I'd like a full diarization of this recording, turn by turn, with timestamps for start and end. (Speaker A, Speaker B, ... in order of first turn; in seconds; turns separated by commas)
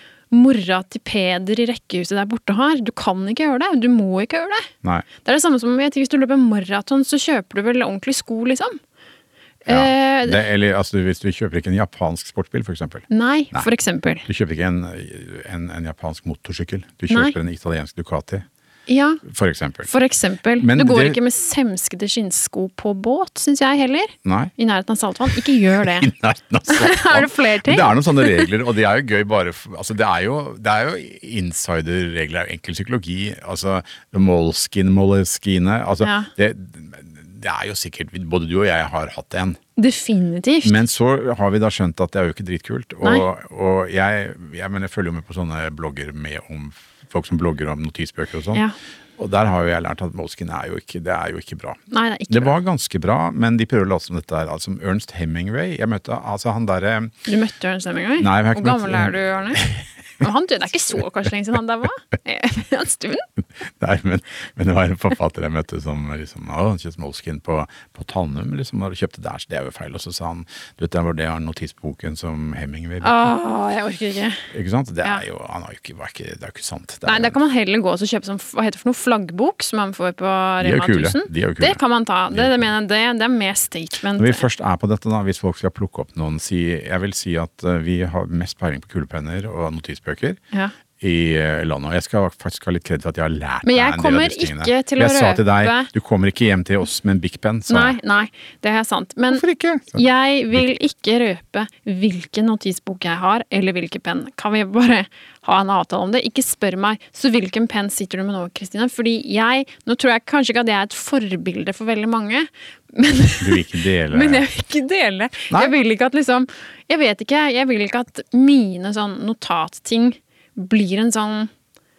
Speaker A: 0.3-4.7, Speaker A: 5.2-8.8, Speaker A: 9.7-10.4, Speaker B: 9.7-13.7, Speaker A: 13.1-14.3, Speaker B: 14.3-18.5, Speaker A: 17.1-17.4, Speaker A: 18.9-19.2, Speaker B: 19.2-19.9, Speaker A: 19.9-26.1, Speaker B: 20.6-21.2, Speaker B: 24.2-24.5, Speaker B: 25.8-39.6, Speaker A: 26.7-28.5, Speaker A: 36.0-36.3, Speaker A: 39.8-40.8, Speaker B: 40.6-48.6, Speaker B: 49.2-57.2, Speaker A: 51.9-52.5, Speaker A: 57.3-59.6, Speaker B: 58.2-59.9, Speaker A: 60.2-63.2, Speaker B: 63.6-73.3, Speaker A: 73.0-74.5, Speaker B: 74.5-77.4, Speaker A: 77.1-84.5, Speaker B: 80.6-81.8, Speaker B: 82.3-82.7, Speaker B: 84.2-90.4, Speaker B: 91.0-98.0, Speaker A: 93.7-95.9, Speaker A: 97.7-121.5, Speaker B: 99.3-100.0, Speaker B: 113.4-114.5